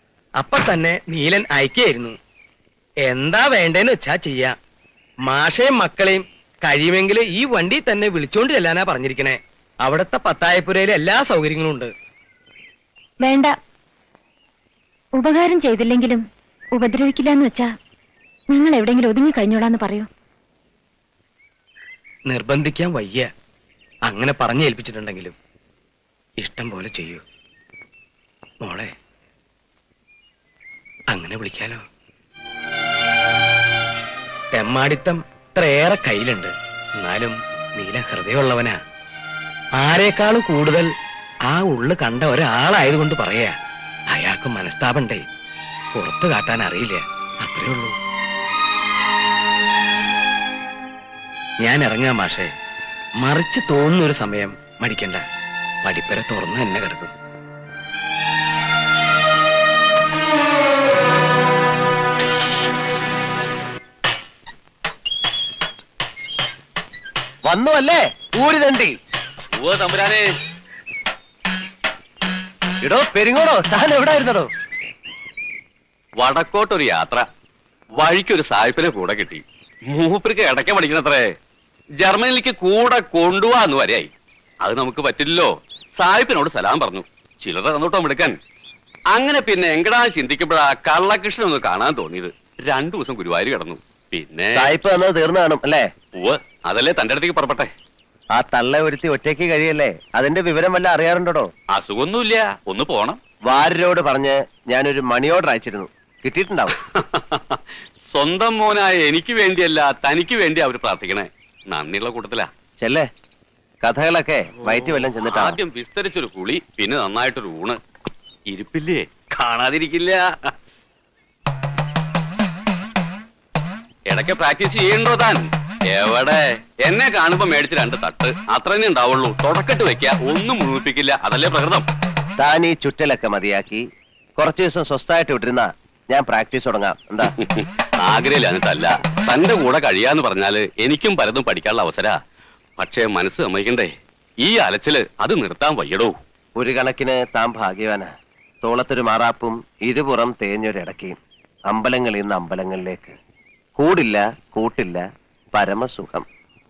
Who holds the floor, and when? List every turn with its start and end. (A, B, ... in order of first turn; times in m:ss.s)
0:00.4-0:02.2 A
0:03.1-0:04.5 A
0:05.3-0:11.9 A
0:13.2-0:13.5 B
0:15.2-0:16.2 B
0:16.8-0:17.7 B
0:18.5-0:20.1 B
0:22.3-0:23.3 A
0:24.1-0:25.3 A
0:26.4-0:27.2 A
0:28.6-0:28.9 A
0:31.1-0:31.8 A
0:34.5-0:38.8 A
0:39.8-0:40.9 A
0:41.5-0:43.5 A
0:44.1-0:45.2 A
0:45.9-0:47.9 A
0:51.6-0:52.5 A
0:53.2-0:55.2 A
0:55.8-0:57.1 A
1:07.4-1:08.9 C
1:09.6-1:10.2 D
1:12.8-1:14.5 C
1:16.2-1:17.2 D
1:18.0-1:21.2 D
1:22.0-1:24.1 D
1:24.6-1:25.5 D
1:26.0-1:28.3 D
1:29.1-1:34.7 D
1:34.5-1:35.8 C
1:36.2-1:37.7 D
1:38.4-1:41.5 C
1:41.7-1:43.2 D
1:43.5-1:46.8 C
1:46.9-1:47.6 D
1:48.1-1:52.5 D
1:52.8-1:53.0 C
1:53.8-1:55.6 C
1:54.6-1:57.8 D
1:58.5-2:00.2 D
2:04.1-2:11.9 D
2:12.4-2:13.8 C
2:14.4-2:17.3 C
2:17.4-2:22.2 D
2:22.8-2:23.9 D
2:24.4-2:26.1 D
2:26.6-2:28.1 C
2:28.6-2:31.2 C
2:31.7-2:33.1 C
2:33.8-2:36.2 C